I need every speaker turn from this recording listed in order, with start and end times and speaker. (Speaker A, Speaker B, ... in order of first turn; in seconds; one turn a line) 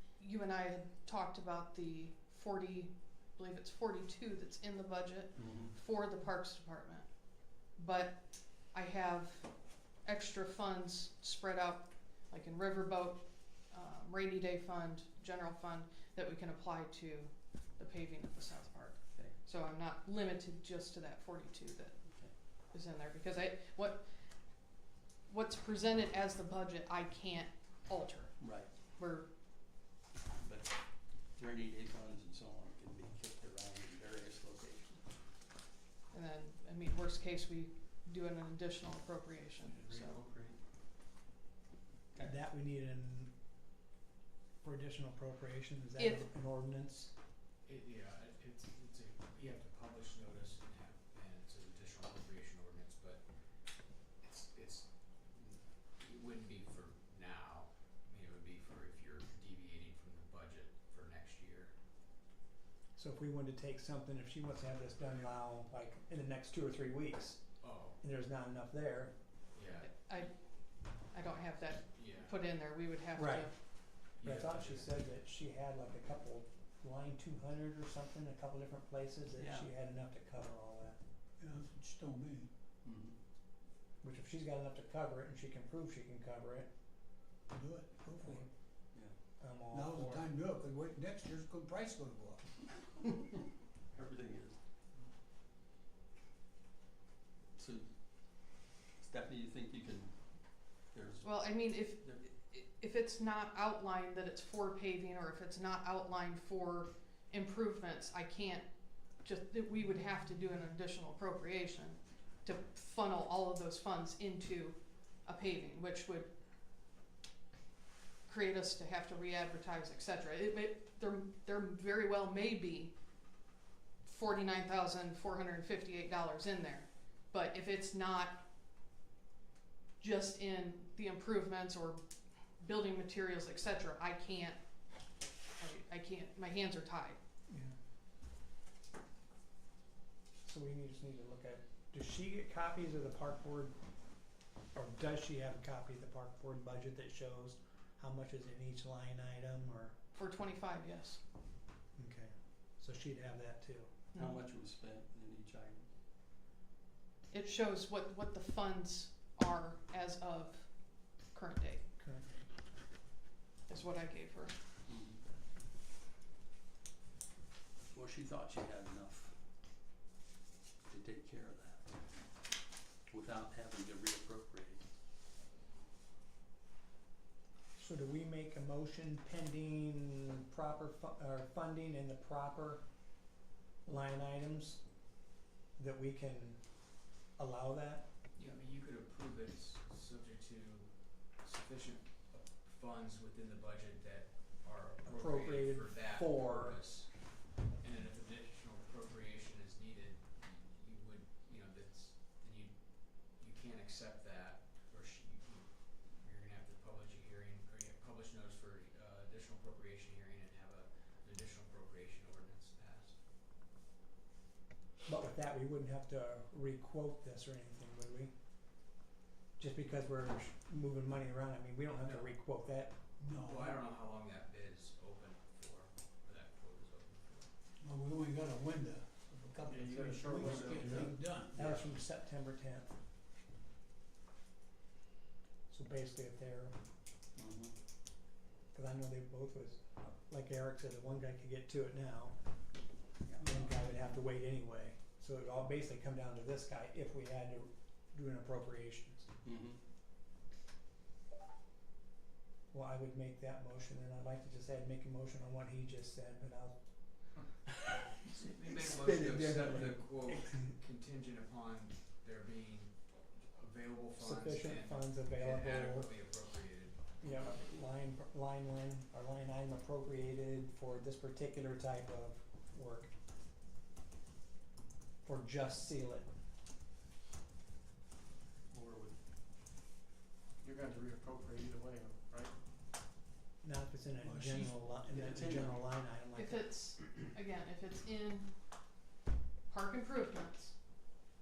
Speaker A: 0.2-9.5
Speaker B: 5.4-5.7
Speaker A: 10.0-24.1
Speaker A: 25.3-29.3
Speaker B: 28.4-28.7
Speaker B: 30.4-35.0
Speaker A: 36.1-40.2
Speaker C: 39.7-40.6
Speaker D: 42.2-43.3
Speaker D: 44.6-47.1
Speaker A: 46.0-46.3
Speaker C: 47.6-61.8
Speaker D: 63.0-69.1
Speaker C: 67.6-68.0
Speaker C: 69.5-69.9
Speaker A: 69.8-70.4
Speaker A: 71.1-73.5
Speaker C: 71.9-72.4
Speaker D: 73.1-81.0
Speaker C: 74.2-74.9
Speaker B: 79.3-79.7
Speaker E: 81.4-82.5
Speaker B: 82.8-83.2
Speaker D: 84.0-86.7
Speaker E: 87.5-88.3
Speaker D: 88.0-88.5
Speaker B: 88.3-89.1
Speaker D: 89.4-90.2
Speaker E: 89.7-92.6
Speaker B: 93.9-94.6
Speaker B: 97.5-102.2
Speaker A: 101.2-108.7
Speaker A: 109.2-116.3
Speaker A: 118.2-122.9
Speaker A: 124.0-128.4
Speaker A: 130.0-132.0
Speaker A: 132.6-134.6
Speaker A: 135.6-137.2
Speaker D: 137.5-137.7
Speaker D: 140.4-143.7
Speaker D: 144.7-149.9
Speaker A: 150.1-151.2
Speaker D: 151.9-153.9
Speaker A: 154.1-154.4
Speaker B: 154.1-155.8
Speaker A: 157.3-161.8
Speaker D: 162.0-162.3
Speaker A: 163.7-164.5
Speaker B: 164.8-165.3
Speaker B: 167.8-169.3
Speaker B: 170.9-171.9
Speaker B: 173.1-174.8
Speaker D: 177.8-182.8
Speaker D: 183.8-184.8
Speaker D: 185.8-186.7
Speaker D: 187.4-188.0
Speaker C: 188.3-213.2
Speaker D: 195.0-196.8
Speaker D: 215.0-218.3
Speaker D: 219.6-222.9
Speaker E: 223.2-223.8
Speaker C: 223.4-227.5
Speaker E: 227.8-231.7
Speaker D: 229.5-232.9
Speaker F: 229.7-231.7
Speaker B: 230.7-231.0
Speaker D: 235.7-236.7
Speaker B: 237.3-237.7
Speaker D: 238.7-242.3
Speaker B: 243.2-243.9
Speaker D: 243.4-249.3
Speaker B: 249.4-249.8
Speaker D: 252.7-256.8
Speaker C: 258.2-267.7
Speaker D: 258.6-260.6
Speaker D: 264.2-266.1
Speaker D: 267.2-273.1
Speaker D: 275.2-276.3
Speaker B: 278.7-279.2
Speaker F: 280.6-282.5
Speaker D: 283.6-286.6
Speaker E: 284.2-284.9
Speaker B: 285.1-285.8
Speaker A: 286.4-288.5
Speaker A: 289.7-290.8